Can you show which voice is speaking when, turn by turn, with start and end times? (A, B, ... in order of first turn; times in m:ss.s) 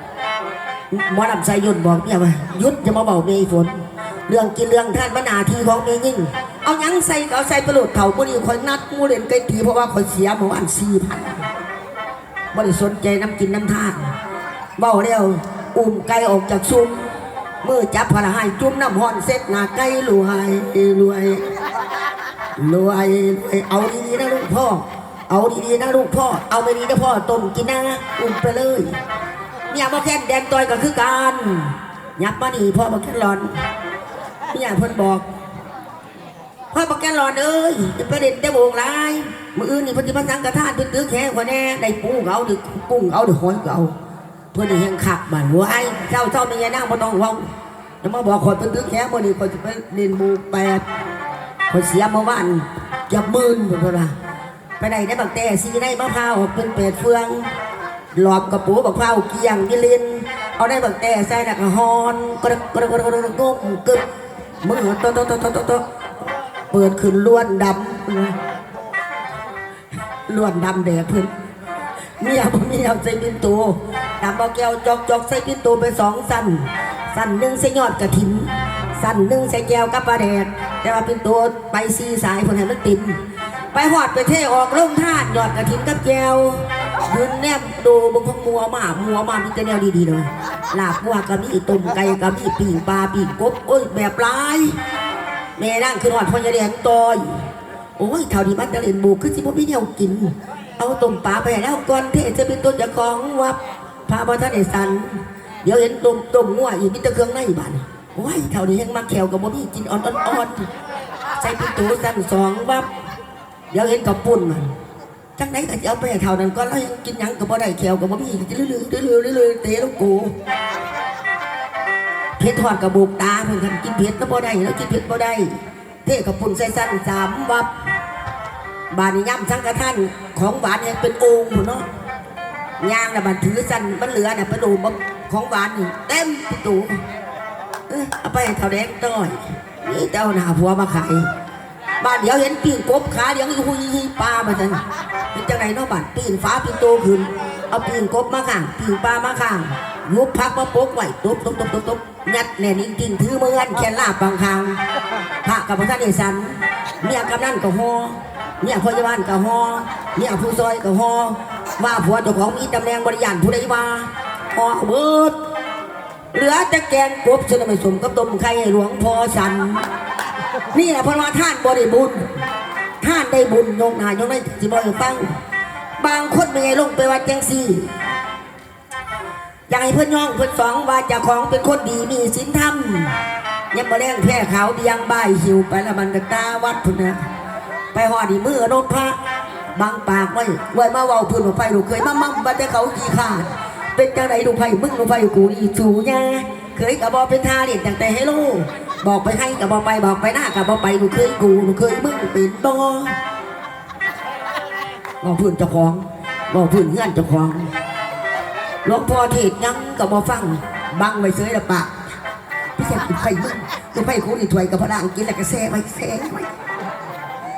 0:00.9-0:11.5 A
0:12.5-0:14.1 A
0:14.8-0:17.1 A
0:17.6-0:21.5 A
0:22.6-0:29.0 A
0:29.7-0:33.6 A
0:34.5-0:35.2 A
0:36.7-0:44.0 A
0:44.5-0:47.5 A
0:48.0-0:50.8 A
0:51.7-0:54.1 A
0:54.8-0:57.5 A
0:58.1-1:04.0 A
1:04.6-1:05.8 A
1:06.7-1:08.4 A
1:10.3-1:11.3 A
1:12.2-1:23.2 A
1:23.7-1:34.8 A
1:35.6-1:37.4 A
1:38.0-1:50.7 A
1:51.4-1:52.9 A
1:53.7-1:54.7 A
1:55.4-2:00.3 A
2:02.4-2:07.7 A
2:08.9-2:11.9 A
2:12.8-2:17.0 A
2:17.9-2:21.3 A
2:22.0-2:34.8 A
2:35.4-2:45.4 A
2:46.3-2:49.9 A
2:50.7-2:52.3 A
2:53.0-2:55.3 A
2:56.0-2:57.9 A
2:59.7-3:03.2 A
3:03.7-3:07.2 A
3:07.9-3:09.2 A
3:09.7-3:23.2 A
3:25.2-3:27.7 A
3:28.8-3:31.9 A
3:32.8-3:36.5 A